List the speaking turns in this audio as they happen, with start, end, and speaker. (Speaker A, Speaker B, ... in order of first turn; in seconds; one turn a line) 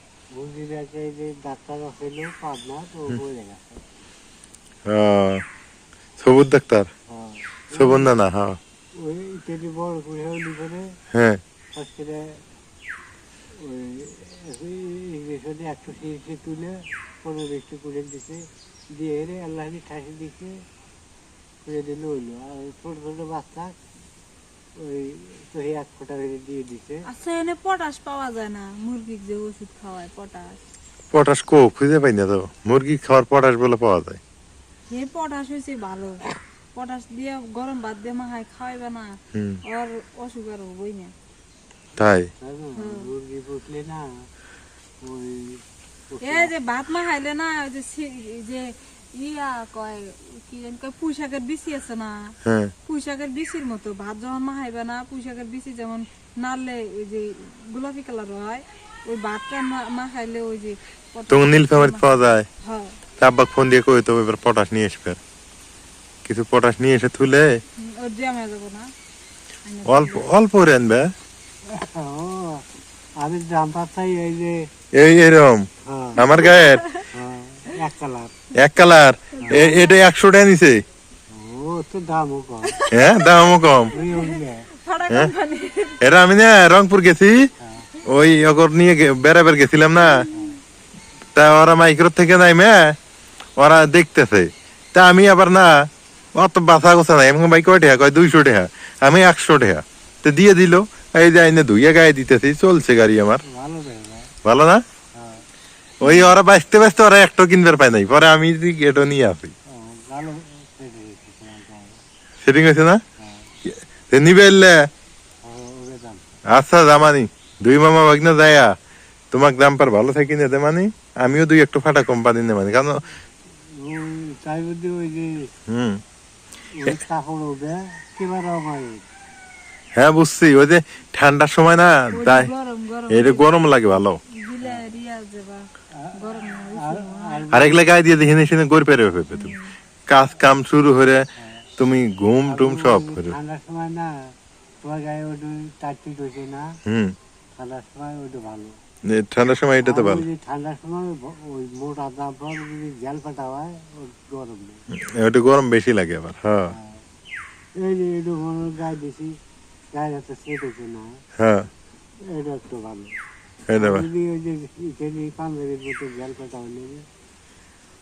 Speaker A: 0.3-3.8
Speaker B: 4.9-5.4
Speaker B: 6.2-6.9
Speaker A: 7.1-8.1
Speaker B: 7.7-8.6
Speaker A: 8.9-10.9
Speaker B: 11.1-11.4
Speaker A: 11.7-12.4
Speaker A: 13.5-20.6
Speaker A: 21.6-23.8
Speaker A: 24.8-27.1
Speaker C: 27.0-30.6
Speaker B: 31.1-34.2
Speaker C: 34.9-41.1
Speaker B: 39.3-39.6
Speaker B: 42.0-42.3
Speaker A: 42.4-44.3
Speaker C: 42.8-43.1
Speaker A: 45.0-46.5
Speaker C: 46.2-62.1
Speaker B: 52.4-52.7
Speaker B: 61.3-62.5
Speaker C: 62.6-63.0
Speaker B: 63.2-65.2
Speaker B: 66.2-67.6
Speaker C: 67.8-68.9
Speaker C: 69.6-70.3
Speaker B: 69.8-71.1
Speaker A: 71.7-72.7
Speaker A: 73.2-74.7
Speaker B: 74.9-76.8
Speaker A: 75.8-76.2
Speaker C: 76.2-77.1
Speaker A: 77.1-78.3
Speaker B: 78.5-80.8
Speaker C: 79.3-80.0
Speaker A: 79.4-79.7
Speaker A: 81.3-82.8
Speaker C: 82.6-83.3
Speaker B: 82.9-83.9
Speaker A: 83.9-84.7
Speaker C: 83.9-86.0
Speaker B: 86.0-87.5
Speaker A: 87.6-87.9
Speaker B: 88.0-90.3
Speaker C: 90.0-90.6
Speaker A: 90.3-90.6
Speaker B: 91.3-93.0
Speaker B: 93.6-103.4
Speaker A: 103.4-104.3
Speaker B: 104.4-104.8
Speaker A: 105.1-105.5
Speaker B: 106.0-109.5
Speaker C: 106.0-106.4
Speaker A: 109.7-112.0
Speaker B: 112.4-113.0
Speaker A: 113.2-113.5
Speaker B: 113.7-114.9
Speaker A: 115.4-116.3
Speaker B: 116.5-118.8
Speaker B: 119.3-123.0
Speaker A: 123.7-125.5
Speaker B: 125.7-126.0
Speaker A: 126.7-129.1
Speaker B: 129.9-132.5
Speaker C: 132.1-133.5
Speaker B: 133.1-134.2
Speaker C: 134.3-137.6
Speaker A: 134.6-134.9
Speaker A: 135.9-137.9
Speaker B: 137.5-139.6
Speaker C: 139.3-139.7
Speaker B: 140.1-141.2
Speaker A: 141.4-141.6
Speaker B: 141.8-143.3
Speaker A: 142.4-146.7
Speaker B: 146.8-147.2
Speaker A: 147.5-148.8
Speaker B: 149.1-150.2
Speaker A: 149.8-154.8
Speaker B: 154.9-156.7
Speaker A: 156.7-157.0
Speaker A: 157.8-159.3
Speaker A: 159.9-161.2
Speaker B: 161.4-161.7
Speaker A: 162.2-163.1
Speaker B: 163.7-164.1
Speaker A: 163.7-167.0